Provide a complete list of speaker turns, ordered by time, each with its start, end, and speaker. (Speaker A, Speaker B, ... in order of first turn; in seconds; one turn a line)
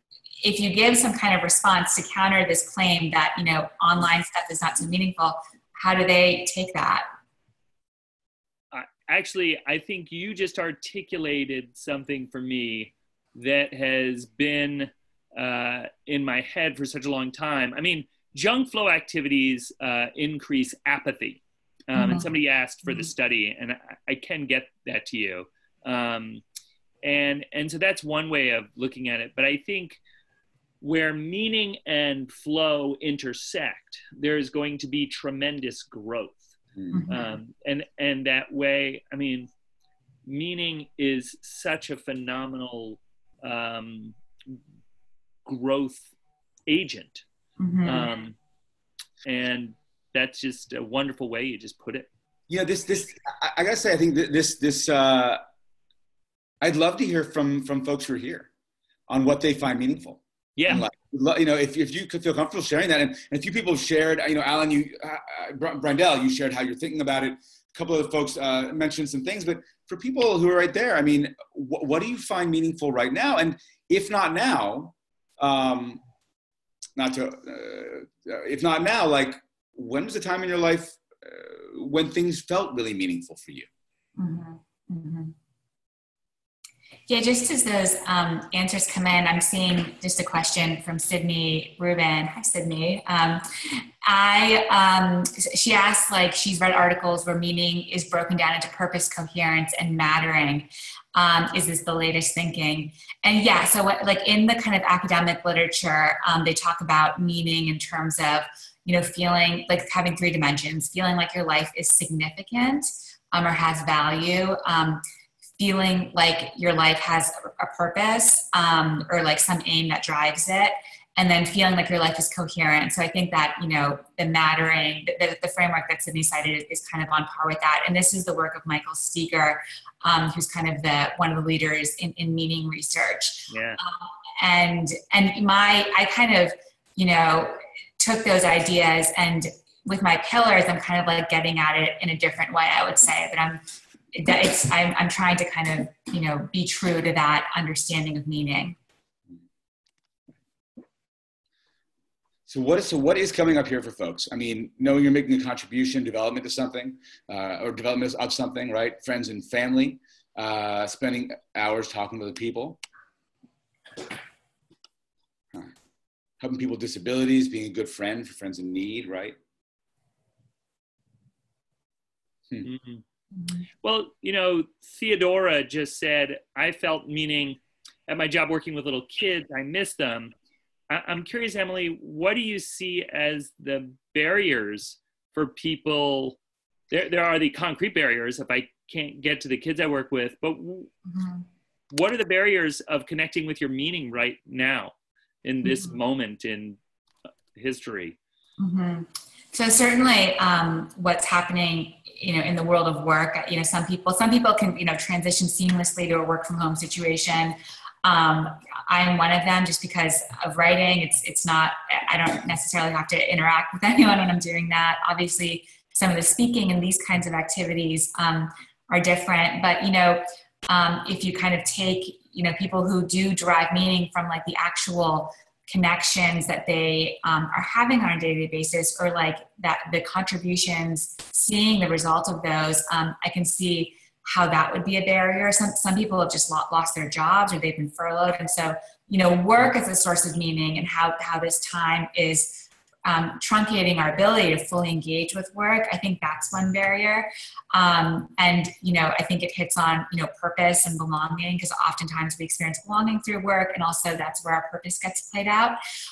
Speaker A: 0.4-7.0
Speaker B: 8.7-26.4
Speaker A: 21.9-22.3
Speaker B: 27.0-30.0
Speaker B: 30.8-36.5
Speaker C: 36.8-37.0
Speaker A: 36.9-37.4
Speaker B: 37.1-39.5
Speaker B: 40.2-44.5
Speaker B: 45.5-46.1
Speaker B: 46.7-47.2
Speaker A: 47.6-48.1
Speaker B: 47.8-48.4
Speaker B: 49.2-52.1
Speaker C: 52.5-55.4
Speaker C: 56.6-58.5
Speaker C: 59.1-76.0
Speaker B: 60.6-60.8
Speaker C: 77.0-83.7
Speaker A: 84.2-85.3
Speaker A: 87.1-115.0
Speaker A: 115.6-143.6
Speaker B: 133.5-133.8
Speaker A: 144.1-148.8
Speaker C: 152.5-162.8
Speaker C: 166.4-169.3
Speaker B: 172.6-173.0
Speaker B: 173.8-180.3
Speaker B: 180.9-186.4
Speaker B: 186.9-190.9
Speaker A: 191.1-191.4
Speaker B: 191.9-194.9
Speaker B: 195.4-196.8
Speaker A: 195.6-196.0
Speaker B: 197.5-198.2
Speaker A: 198.6-255.8